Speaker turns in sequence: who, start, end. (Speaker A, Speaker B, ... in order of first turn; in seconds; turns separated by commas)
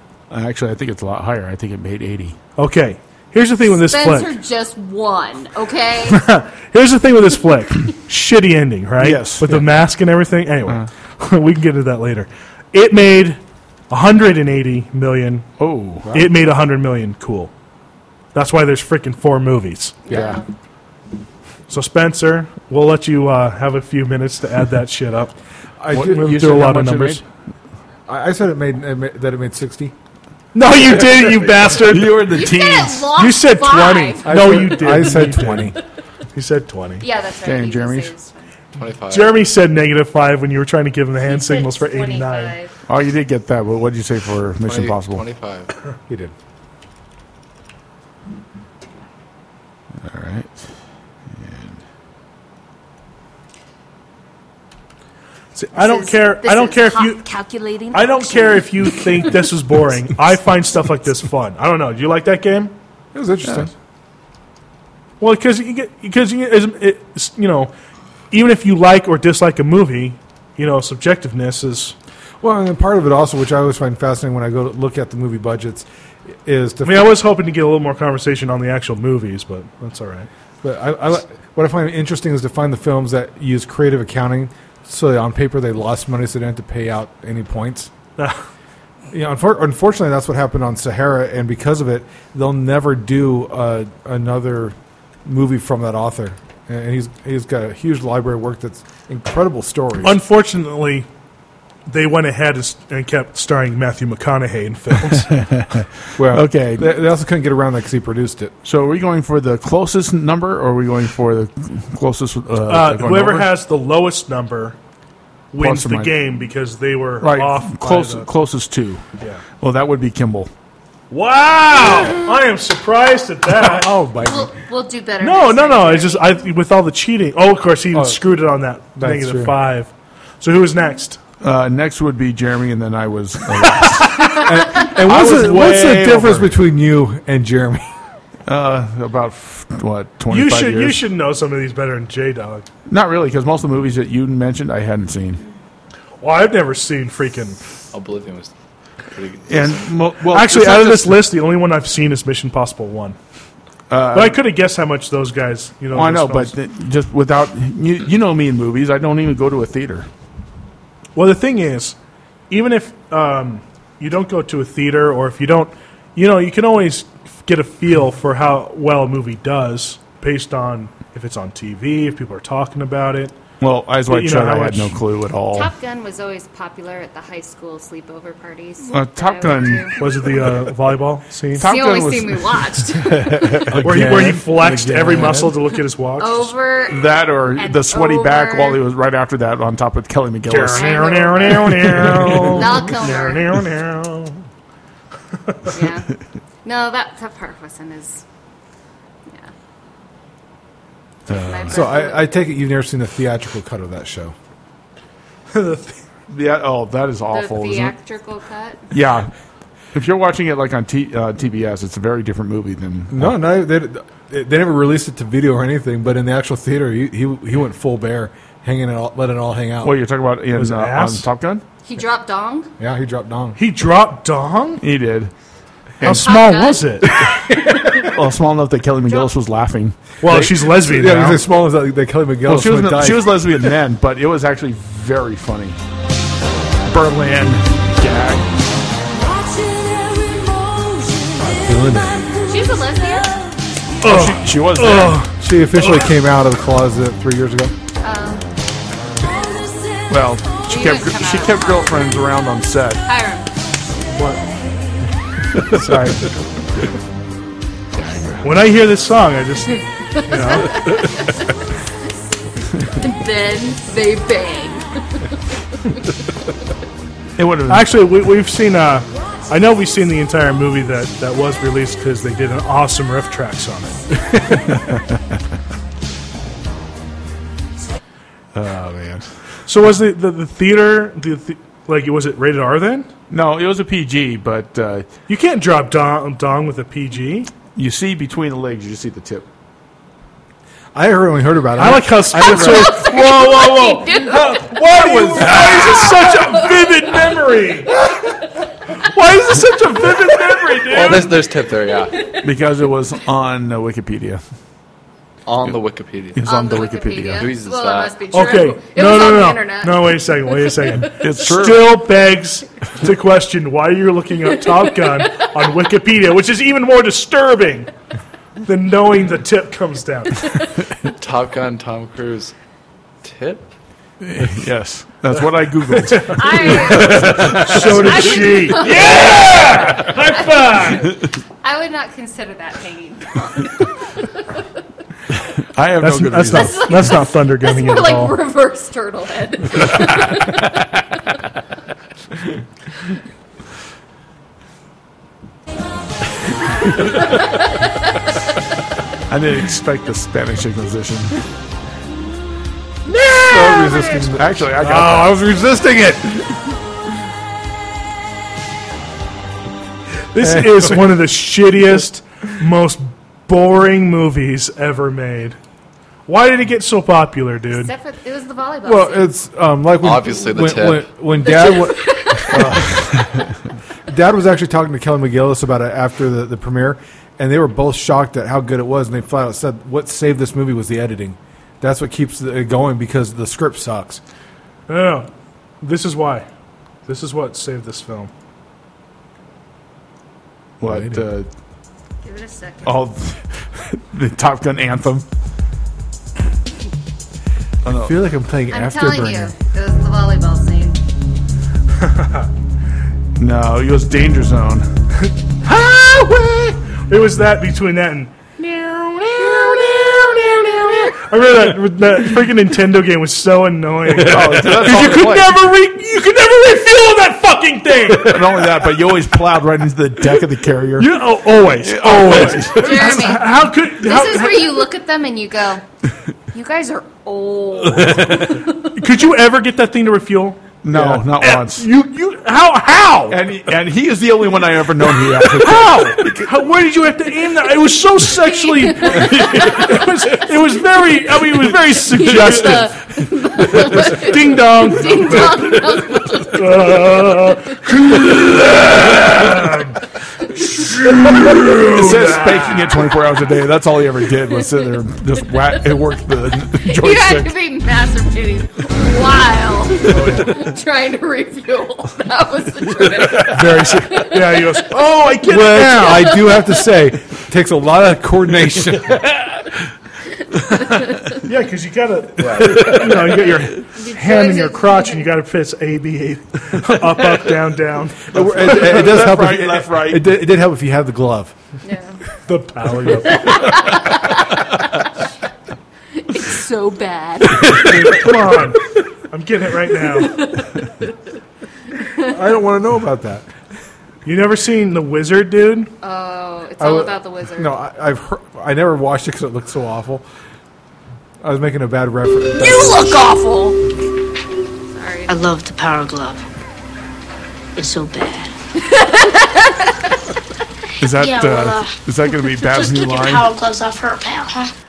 Speaker A: 0.3-2.4, Speaker B: 2.6-4.3, Speaker C: 3.8-6.3, Speaker B: 6.1-15.5, Speaker A: 9.0-9.7, Speaker A: 15.6-16.1, Speaker B: 16.1-17.5, Speaker B: 18.3-20.1, Speaker C: 20.1-20.4, Speaker A: 20.1-20.4, Speaker B: 21.7-25.4, Speaker D: 25.8-26.4, Speaker A: 25.9-27.2, Speaker B: 26.0-27.2, Speaker D: 28.1-29.9, Speaker B: 30.5-32.4, Speaker A: 31.7-33.1, Speaker C: 32.2-34.7, Speaker B: 33.1-35.7, Speaker D: 34.2-35.8, Speaker B: 36.3-37.1, Speaker C: 37.0-38.5, Speaker A: 37.4-38.1, Speaker E: 38.8-39.5, Speaker B: 39.1-42.6, Speaker C: 41.2-42.8, Speaker A: 42.9-45.2, Speaker E: 44.6-45.7, Speaker D: 46.1-46.3, Speaker A: 50.0-50.7, Speaker A: 51.3-51.8, Speaker B: 55.5-57.2, Speaker C: 55.7-59.3, Speaker B: 57.9-62.7, Speaker D: 63.1-63.7, Speaker A: 63.4-63.7, Speaker B: 65.2-67.7, Speaker B: 68.3-72.0, Speaker D: 72.4-75.9, Speaker D: 76.5-77.2, Speaker B: 76.8-80.3, Speaker D: 80.6-87.9, Speaker D: 89.1-100.2, Speaker B: 100.0-101.1, Speaker B: 101.9-105.3, Speaker A: 105.1-107.0, Speaker D: 106.2-108.5, Speaker A: 108.6-113.5, Speaker B: 112.7-114.8, Speaker B: 115.5-118.3, Speaker A: 115.6-116.1, Speaker A: 117.2-119.0, Speaker A: 119.6-120.5, Speaker B: 121.1-123.9, Speaker D: 123.6-124.5, Speaker C: 124.2-126.3, Speaker B: 125.2-131.2, Speaker D: 127.9-128.2, Speaker D: 128.9-129.6, Speaker A: 131.4-134.4, Speaker B: 133.6-136.4, Speaker D: 134.4-137.9, Speaker A: 135.0-136.5, Speaker A: 138.4-141.0, Speaker B: 140.3-142.7, Speaker A: 142.9-145.4, Speaker B: 146.2-147.6, Speaker E: 147.9-148.5, Speaker E: 149.1-150.0, Speaker A: 149.5-151.2, Speaker B: 150.3-153.2, Speaker A: 153.9-154.4, Speaker B: 154.1-156.5, Speaker A: 155.9-160.1, Speaker B: 161.1-162.0, Speaker B: 162.5-173.3, Speaker A: 173.6-175.7, Speaker B: 174.1-175.0, Speaker C: 175.5-180.0, Speaker A: 178.9-180.6, Speaker B: 180.0-181.7, Speaker A: 181.5-184.3, Speaker C: 181.6-183.7, Speaker D: 183.7-185.5, Speaker B: 183.8-186.5, Speaker A: 185.0-185.4, Speaker C: 186.2-188.8, Speaker A: 186.9-192.5, Speaker B: 190.4-194.4, Speaker C: 190.7-191.8, Speaker C: 192.5-193.5, Speaker C: 195.7-196.1, Speaker C: 196.6-198.2, Speaker A: 201.3-201.8, Speaker C: 201.3-202.3, Speaker D: 201.7-204.3, Speaker B: 205.5-206.0, Speaker A: 206.3-207.9, Speaker C: 207.3-208.9, Speaker A: 208.9-209.3, Speaker A: 209.9-213.4, Speaker D: 213.1-219.9, Speaker A: 219.8-221.6, Speaker B: 220.5-221.3, Speaker C: 221.8-222.7, Speaker D: 222.8-223.6, Speaker B: 223.6-224.8, Speaker A: 224.8-225.3, Speaker A: 226.0-226.3, Speaker B: 226.0-227.4, Speaker C: 226.0-228.1, Speaker A: 227.9-230.0, Speaker B: 230.2-231.4, Speaker D: 230.3-233.4, Speaker A: 232.4-235.8, Speaker A: 236.8-238.4, Speaker F: 239.7-240.9, Speaker D: 241.4-242.4, Speaker C: 242.4-243.4, Speaker B: 244.0-246.1, Speaker A: 244.0-245.2, Speaker D: 245.4-247.7, Speaker C: 248.0-248.5, Speaker A: 250.1-253.1, Speaker C: 250.6-252.3, Speaker C: 253.1-253.5, Speaker D: 255.7-256.3, Speaker B: 258.4-260.8, Speaker C: 259.7-261.4, Speaker C: 263.0-266.0, Speaker A: 267.4-268.0, Speaker B: 267.7-274.7, Speaker A: 278.5-279.3, Speaker B: 279.6-283.1, Speaker A: 283.3-285.1, Speaker B: 285.3-287.5, Speaker A: 287.7-289.5, Speaker D: 290.9-293.1, Speaker B: 291.8-298.0, Speaker C: 292.4-297.2, Speaker A: 295.5-295.8, Speaker B: 298.9-301.4, Speaker E: 300.9-302.1, Speaker C: 302.1-302.4, Speaker A: 302.4-304.4, Speaker E: 305.4-306.4, Speaker A: 306.3-307.5, Speaker C: 306.4-311.1, Speaker E: 307.4-308.1, Speaker B: 308.3-317.9, Speaker A: 311.0-312.0, Speaker C: 314.7-315.5, Speaker B: 318.6-320.5, Speaker E: 321.1-322.5, Speaker E: 323.2-323.6, Speaker A: 324.2-328.4, Speaker B: 326.1-331.1, Speaker C: 326.2-334.6, Speaker A: 329.0-329.5, Speaker A: 335.6-337.2, Speaker B: 336.0-338.4, Speaker C: 336.5-340.8, Speaker C: 347.0-347.9, Speaker A: 349.3-351.4, Speaker B: 353.1-354.1, Speaker D: 353.3-356.5, Speaker A: 354.1-355.4, Speaker B: 360.3-365.6, Speaker D: 360.4-361.2, Speaker B: 366.3-367.9, Speaker C: 367.7-369.3, Speaker D: 368.8-372.9, Speaker E: 370.0-371.1, Speaker C: 371.3-372.9, Speaker A: 372.5-373.5, Speaker D: 374.1-384.2, Speaker B: 384.9-385.3, Speaker B: 385.8-386.5, Speaker B: 387.1-388.3, Speaker A: 390.8-391.5, Speaker D: 390.8-391.2, Speaker C: 392.2-393.0, Speaker A: 392.8-395.2, Speaker A: 397.8-398.2, Speaker D: 397.8-399.6, Speaker C: 398.7-401.0, Speaker B: 402.0-402.5, Speaker A: 403.4-404.9, Speaker B: 405.2-418.6, Speaker C: 408.6-411.1, Speaker A: 414.1-415.6, Speaker A: 418.1-423.2, Speaker B: 421.0-424.9, Speaker C: 422.6-425.8, Speaker C: 426.5-428.9, Speaker B: 428.2-433.4, Speaker A: 430.8-431.9, Speaker A: 433.3-436.5, Speaker B: 435.4-442.9, Speaker C: 438.4-440.9, Speaker C: 441.9-447.8, Speaker B: 443.7-445.8, Speaker B: 446.5-450.0, Speaker B: 450.6-453.1, Speaker A: 451.8-457.5, Speaker C: 456.8-464.9, Speaker A: 460.1-460.5, Speaker B: 463.3-466.5, Speaker D: 465.4-469.3, Speaker C: 466.0-466.9, Speaker C: 470.7-471.4, Speaker B: 471.3-478.9, Speaker C: 473.4-475.3, Speaker A: 478.3-480.4, Speaker D: 478.3-481.5, Speaker C: 481.8-482.2, Speaker B: 482.4-483.9, Speaker C: 483.3-485.2, Speaker C: 486.1-488.2, Speaker B: 487.6-490.4, Speaker C: 490.2-490.8, Speaker D: 492.2-493.4, Speaker B: 494.2-495.9, Speaker C: 496.0-497.8, Speaker D: 496.8-500.2, Speaker D: 501.4-503.3, Speaker C: 504.9-505.4, Speaker C: 508.8-510.2, Speaker A: 511.0-513.5, Speaker F: 511.2-511.8, Speaker F: 512.7-514.7